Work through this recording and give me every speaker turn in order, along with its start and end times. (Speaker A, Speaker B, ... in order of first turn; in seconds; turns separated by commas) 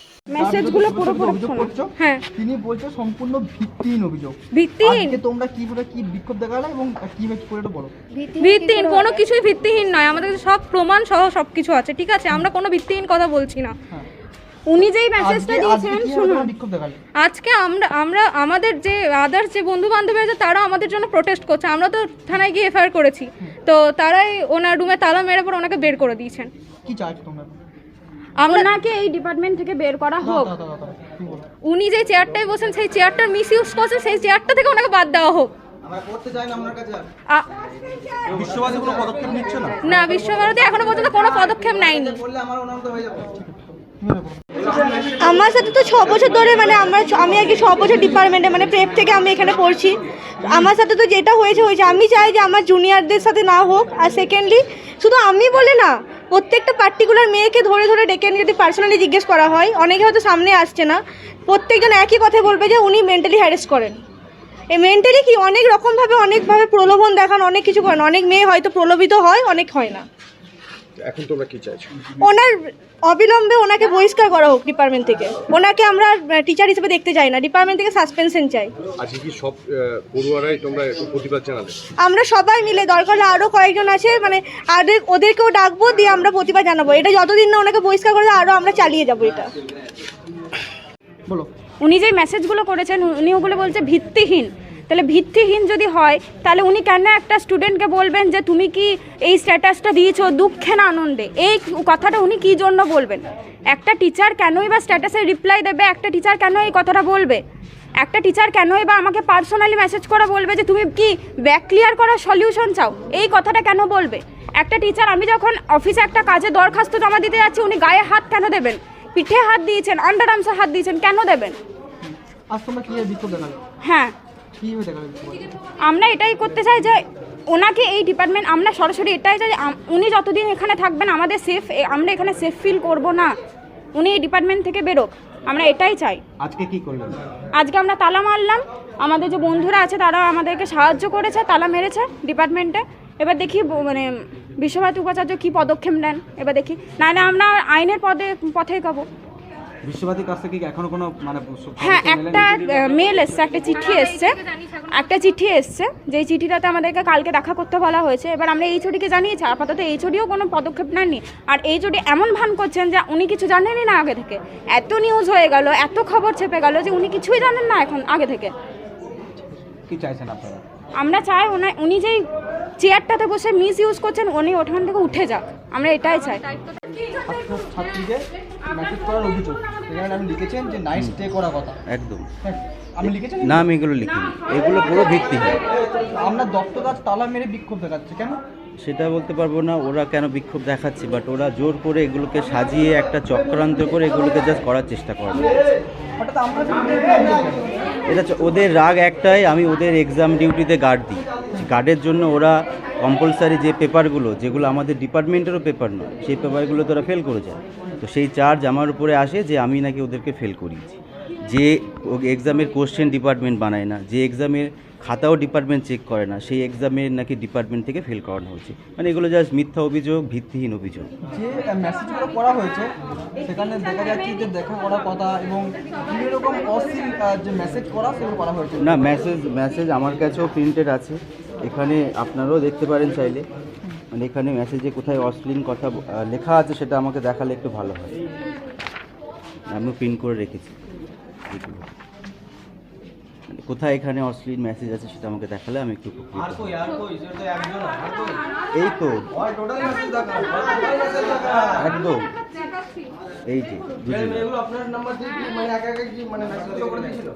Speaker A: 0.3-1.7, Speaker B: 0.4-7.9, Speaker C: 2.0-2.2, Speaker C: 4.5-5.2, Speaker A: 8.1-9.2, Speaker C: 8.4-13.8, Speaker A: 14.7-16.5, Speaker B: 15.2-17.0, Speaker C: 17.2-26.5, Speaker B: 26.9-27.6, Speaker C: 28.4-28.7, Speaker A: 28.5-30.5, Speaker B: 30.2-31.4, Speaker C: 31.6-35.5, Speaker B: 35.9-37.0, Speaker B: 38.3-39.8, Speaker C: 39.8-42.2, Speaker B: 42.7-43.5, Speaker B: 44.0-44.4, Speaker D: 45.2-64.0, Speaker D: 64.7-70.0, Speaker E: 71.0-71.9, Speaker D: 72.2-72.5, Speaker D: 73.1-78.7, Speaker E: 79.0-81.8, Speaker D: 82.0-89.5, Speaker A: 91.8-107.4, Speaker A: 108.0-121.6, Speaker B: 122.0-123.6, Speaker A: 123.8-124.2, Speaker B: 124.6-125.5, Speaker A: 125.8-133.3, Speaker A: 133.9-136.2, Speaker B: 136.4-137.2, Speaker A: 137.5-149.1, Speaker B: 149.8-152.5, Speaker A: 151.8-168.6, Speaker B: 169.4-170.6, Speaker A: 171.0-172.2, Speaker A: 172.8-176.4, Speaker B: 177.2-181.8, Speaker F: 181.9-182.3, Speaker B: 182.4-183.7, Speaker F: 183.0-185.6, Speaker B: 186.1-188.4, Speaker F: 188.8-195.5, Speaker B: 196.2-197.7, Speaker F: 198.1-211.0, Speaker F: 211.5-221.1, Speaker B: 221.3-228.9, Speaker F: 228.8-233.4, Speaker F: 234.1-238.2, Speaker F: 239.7-240.8, Speaker F: 241.5-241.9, Speaker F: 243.5-247.0, Speaker F: 248.8-250.3, Speaker F: 251.7-252.3, Speaker F: 253.5-254.5, Speaker B: 254.9-257.2